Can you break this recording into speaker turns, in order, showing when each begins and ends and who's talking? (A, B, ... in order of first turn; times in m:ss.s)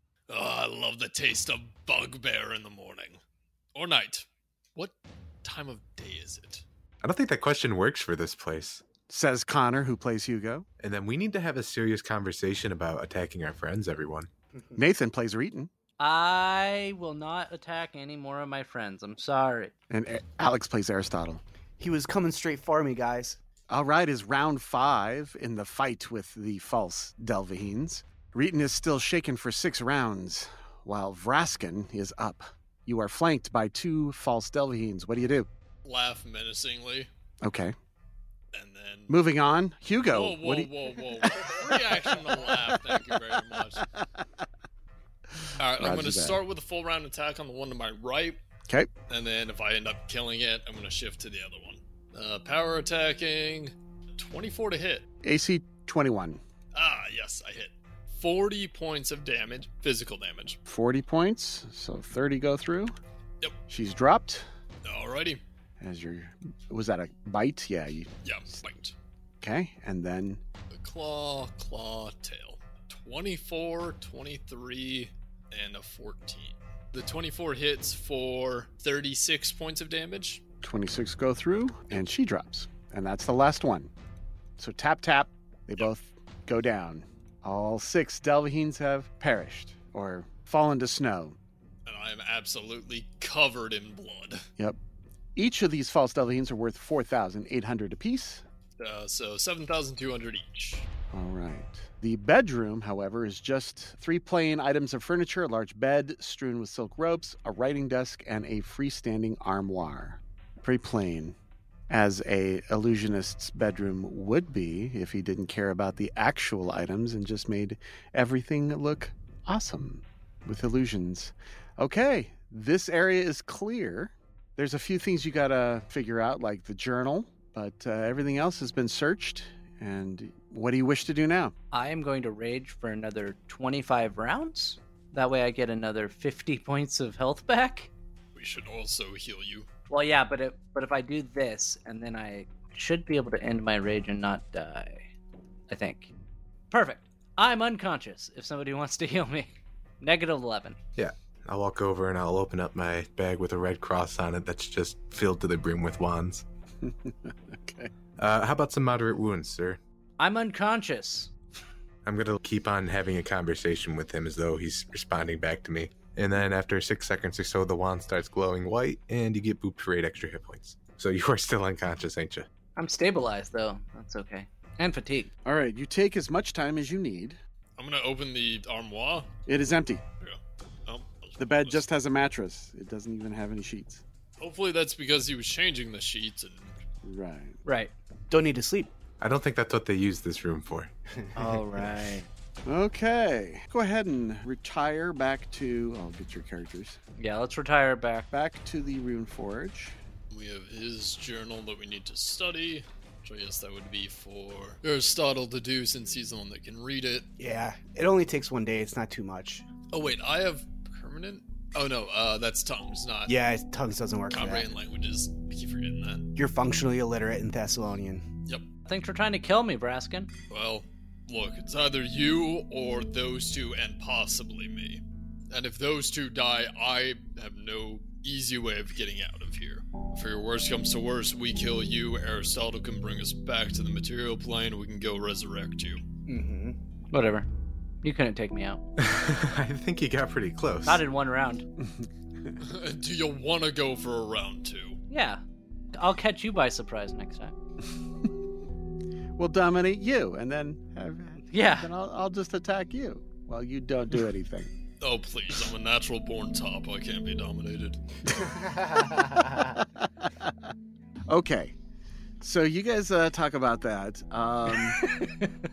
0:00.3-0:03.2 A
0:03.8-0:06.6 A
0:07.0-0:08.8 B
0:09.1-0:10.7 C
0:10.8-0:14.3 B
0:14.8-0:15.7 C
0:16.0-0:19.7 D
0:19.9-0:21.4 C
0:21.8-0:23.4 E
0:23.7-0:35.5 C
0:35.8-0:37.1 A
0:37.4-0:37.8 C
0:38.5-0:39.2 A
0:39.1-0:43.0 C
0:40.1-0:43.9 A
0:45.6-0:48.4 A
0:45.8-0:46.4 C
0:49.1-0:55.1 A
0:55.2-0:56.4 C
0:56.7-1:00.6 A
1:00.7-1:02.9 C
1:03.7-1:04.5 C
1:04.8-1:05.4 A
1:05.8-1:08.1 C
1:08.2-1:09.0 A
1:09.4-1:10.4 C
1:10.7-1:20.4 A
1:20.6-1:23.9 C
1:24.6-1:31.4 C
1:31.9-1:34.5 A
1:35.4-1:38.4 C
1:38.8-1:40.9 A
1:41.1-1:51.4 C
1:51.9-2:11.6 C
2:11.7-2:17.9 D
2:18.4-2:19.7 A
2:19.9-2:25.1 D
2:25.7-2:26.1 D
2:26.7-2:29.5 D
2:30.0-2:30.8 D
2:31.0-2:36.4 B
2:36.8-2:37.9 C
2:38.2-2:39.8 B
2:40.2-2:41.3 D
2:42.0-2:52.5 B
2:52.8-2:55.3 D
2:55.4-2:57.4 C
2:57.8-2:59.3 A
2:59.5-3:00.0 C
3:00.2-3:01.8 A
3:01.4-3:04.0 C
3:04.4-3:06.8 A
3:07.0-3:07.6 C
3:07.6-3:07.9 D
3:08.3-3:08.9 E
3:09.2-3:10.9 B
3:11.4-3:12.3 D
3:11.4-3:12.0 E
3:12.7-3:17.0 C
3:17.2-3:18.3 D
3:18.3-3:20.0 C
3:20.3-3:27.3 A
3:27.4-3:29.6 E
3:29.9-3:33.4 A
3:33.3-3:34.7 E
3:34.3-3:36.3 A
3:36.4-3:38.3 E
3:38.9-3:40.3 D
3:40.5-3:56.0 A
3:56.3-3:56.8 E
3:57.1-3:57.5 D
3:58.0-3:58.8 D
3:59.0-4:01.0 B
4:00.8-4:01.6 D
4:01.8-4:02.6 C
4:02.6-4:05.0 A
4:05.1-4:05.4 D
4:05.9-4:07.5 D
4:09.4-4:14.7 C
4:11.5-4:11.9 D
4:15.0-4:18.0 A
4:18.6-4:19.5 E
4:19.1-4:20.5 C
4:21.3-4:21.8 C
4:22.4-4:25.0 C
4:25.0-4:25.5 D